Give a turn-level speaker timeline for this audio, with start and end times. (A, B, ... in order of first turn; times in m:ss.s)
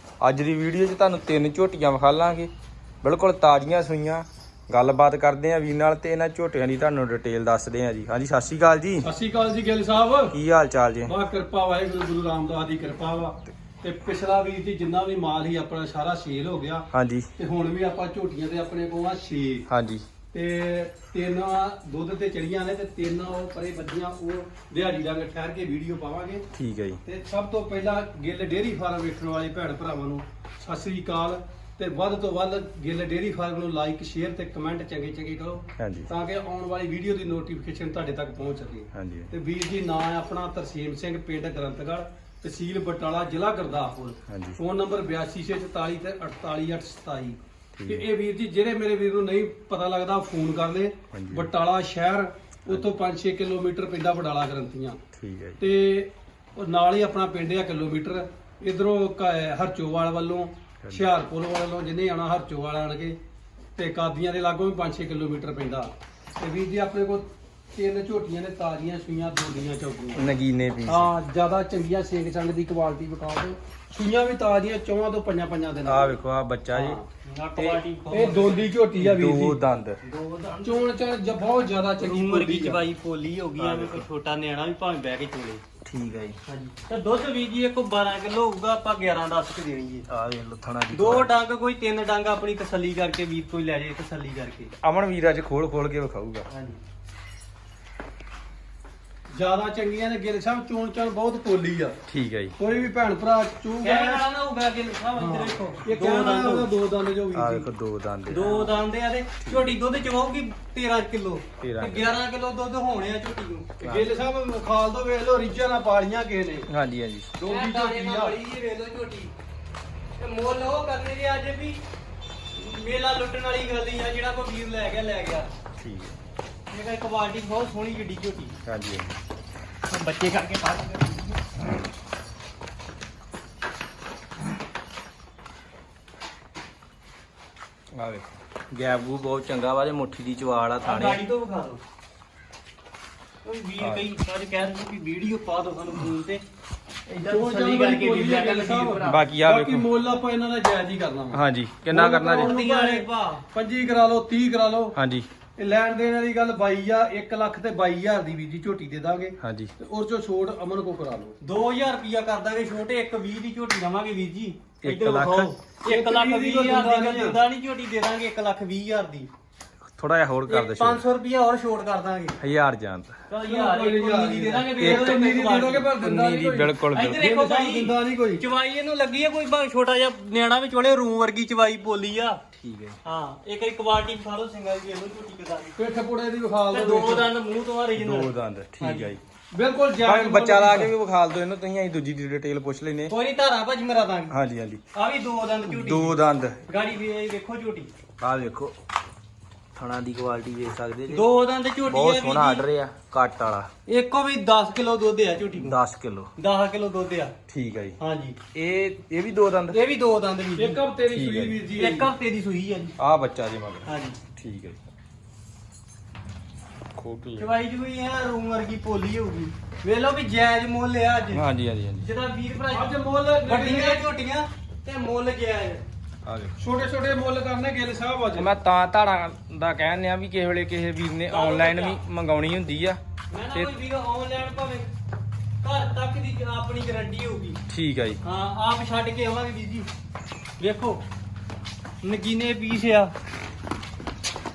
0:00.2-0:02.5 A
0:03.0-0:09.1 A
0:09.0-0:10.4 B
0:10.3-0:11.1 A
0:11.0-0:16.8 B
0:16.9-0:17.3 A
0:17.4-0:19.6 B
0:19.7-0:20.0 A
0:20.3-0:26.4 B
0:26.5-0:27.0 A
0:27.0-0:55.0 B
0:35.8-0:36.1 A
0:38.9-0:39.3 A
0:44.3-0:44.6 A
0:47.8-0:48.1 A
0:51.1-0:51.5 A
0:55.2-0:55.6 A
0:55.6-1:03.2 B
1:03.8-1:10.2 B
1:10.1-1:11.1 A
1:10.8-1:16.2 B
1:15.8-1:17.0 A
1:16.7-1:17.0 B
1:17.2-1:18.7 C
1:18.1-1:19.6 B
1:19.0-1:20.0 A
1:20.0-1:20.9 C
1:20.6-1:22.8 B
1:22.0-1:25.6 C
1:23.6-1:24.1 A
1:25.8-1:26.4 A
1:26.4-1:30.0 C
1:30.1-1:31.3 A
1:30.9-1:34.7 C
1:34.8-1:36.5 A
1:36.5-1:36.8 C
1:39.3-1:42.0 B
1:42.1-1:42.6 A
1:42.6-1:44.2 B
1:43.8-1:46.7 C
1:45.1-1:47.7 B
1:47.3-1:48.7 A
1:48.3-1:53.7 C
1:49.4-1:49.7 A
1:51.6-1:52.2 A
1:53.8-1:56.7 B
1:53.8-1:54.1 A
1:56.7-1:57.3 A
1:57.4-1:58.4 B
1:57.4-1:59.3 C
2:00.2-2:01.8 C
2:02.5-2:05.5 C
2:05.8-2:06.2 A
2:06.7-2:08.5 C
2:08.6-2:09.1 A
2:09.9-2:11.4 C
2:17.9-2:21.2 A
2:20.8-2:21.8 C
2:23.4-2:26.4 C
2:23.8-2:24.0 A
2:27.1-2:29.2 C
2:27.2-2:34.9 B
2:29.0-2:29.9 A
2:31.3-2:32.6 A
2:32.3-2:33.4 C
2:34.9-2:35.3 A
2:35.6-2:41.4 B
2:39.4-2:39.7 A
2:41.4-2:49.3 C
2:44.8-2:45.5 A
2:45.5-2:47.4 B
2:49.8-2:51.0 A
2:50.5-2:52.4 C
2:52.4-2:53.2 A
2:53.3-2:55.9 C
2:53.4-2:58.4 B
2:54.8-2:55.2 A
2:56.0-2:57.2 A
2:56.9-3:02.4 C
3:02.6-3:03.0 A
3:03.0-3:05.8 C
3:05.8-3:07.3 B
3:06.7-3:09.1 C
3:07.9-3:09.2 A
3:09.5-3:10.9 B
3:10.0-3:13.1 A
3:13.1-3:14.3 C
3:14.3-3:14.8 A
3:14.9-3:16.2 C
3:15.7-3:16.6 A
3:16.7-3:17.9 C
3:18.2-3:18.8 A
3:19.7-3:21.3 A
3:21.1-3:22.6 C
3:21.8-3:23.7 A
3:23.9-3:25.8 C
3:25.6-3:26.3 A
3:26.4-3:27.3 C
3:27.5-3:28.0 A
3:28.0-3:28.4 C
3:28.5-3:29.8 A
3:29.7-3:30.8 C
3:30.6-3:32.1 B
3:31.1-3:31.6 A
3:31.8-3:32.9 C
3:33.0-3:34.8 A
3:33.8-3:34.2 C
3:36.9-3:37.5 A
3:37.4-3:41.4 C
3:41.3-3:42.1 A
3:42.0-3:42.9 C
3:42.7-3:44.0 B
3:43.4-3:45.8 C
3:46.2-3:46.6 A
3:46.6-3:48.5 B
3:48.4-3:53.0 A
3:51.3-3:52.0 C
3:53.3-3:54.9 C
3:55.6-3:57.6 C
3:57.7-3:58.2 A
3:58.2-3:59.9 C
4:00.6-4:01.0 C
4:02.0-4:03.1 C